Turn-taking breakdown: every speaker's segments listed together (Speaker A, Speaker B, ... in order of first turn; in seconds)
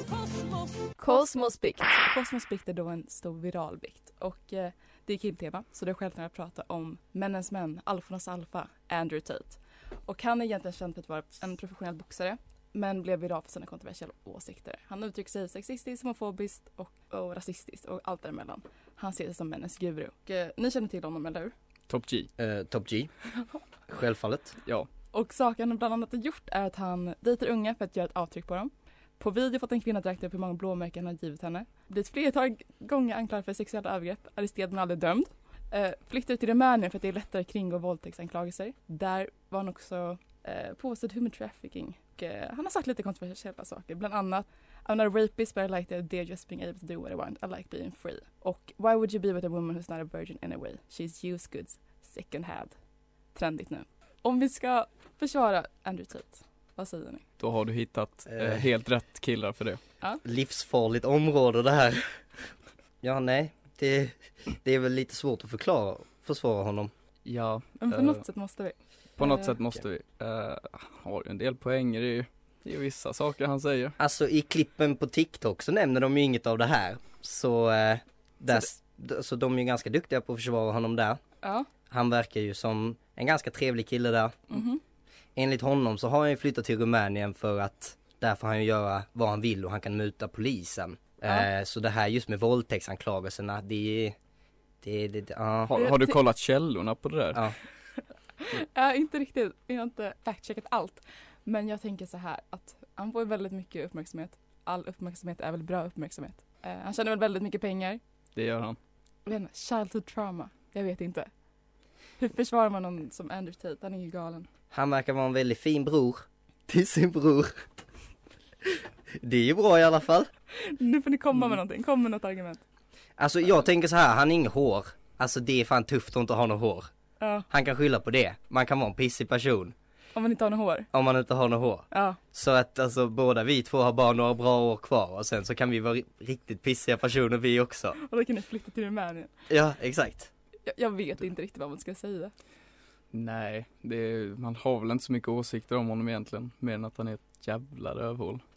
Speaker A: 1.0-21.5, 25.1-52.7, 53.3-57.2, 67.8-69.5, 81.4-81.7, 84.5-84.8, 95.7-96.2, 98.4-108.0, 109.3-111.3, 112.2-114.5, 120.5-122.6, 127.2-127.5, 130.2-130.9, 131.9-132.2, 138.0-139.3, 140.7-142.3
Speaker B: 21.9-22.3, 57.4-59.8, 67.2-68.2, 69.2-74.0, 95.7-97.4, 108.3-108.8, 143.1-148.4
Speaker C: 22.4-23.1, 23.9-24.6, 58.3-58.6, 60.2-62.2, 63.0-66.9, 74.0-81.2, 81.9-84.4, 85.4-94.2, 94.8-95.8, 114.7-117.6, 118.7-120.3, 123.2-126.9, 127.5-129.8, 130.9-138.0, 139.5-140.3